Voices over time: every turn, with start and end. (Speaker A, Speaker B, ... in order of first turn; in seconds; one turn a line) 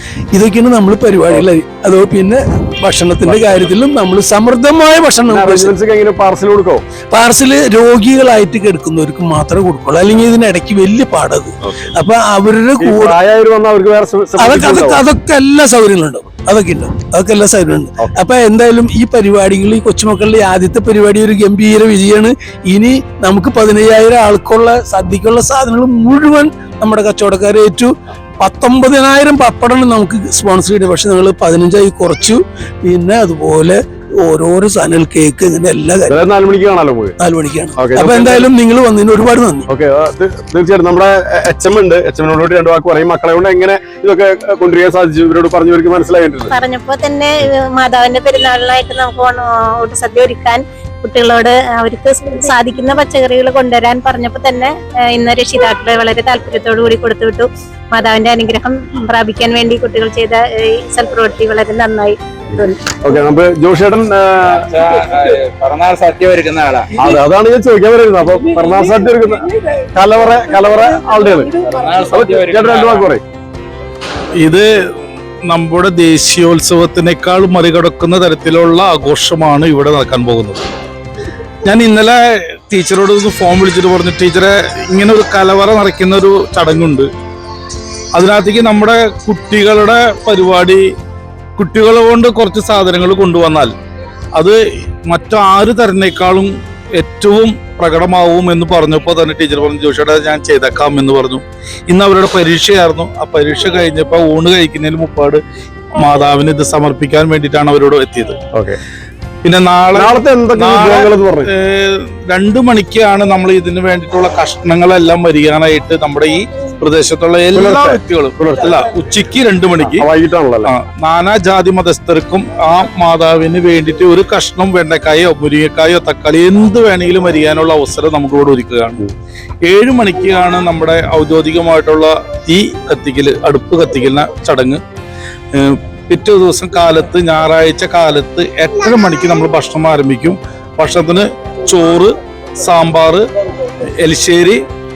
Speaker A: 0.3-5.7
Speaker B: 3.2-3.6
Speaker B: 5.3-6.8
Speaker A: 7.1-13.2
Speaker B: 12.8-15.0
Speaker A: 14.4-36.2
Speaker B: 36.1-37.2
Speaker A: 37.2-39.7
Speaker B: 37.8-38.5
Speaker B: 39.7-46.5
Speaker C: 46.5-62.8
Speaker B: 62.9-64.7
Speaker D: 64.6-66.9
Speaker B: 67.0-69.4
Speaker A: 68.3-69.7
Speaker B: 70.0-71.5
Speaker A: 70.5-71.9
Speaker D: 71.7-73.1
Speaker B: 72.1-73.2
Speaker E: 74.4-74.7
Speaker E: 75.4-80.6
Speaker E: 81.6-87.1
Speaker E: 88.1-90.8
Speaker E: 91.6-93.7
Speaker E: 94.4-105.4
Speaker E: 106.0-108.3
Speaker B: 108.5-108.8
Speaker E: 109.4-120.1
Speaker B: 109.9-111.5
Speaker B: 117.5-118.7
Speaker B: 119.8-120.7
Speaker E: 120.6-129.0
Speaker E: 129.7-134.8
Speaker E: 135.5-143.2
Speaker E: 144.0-144.6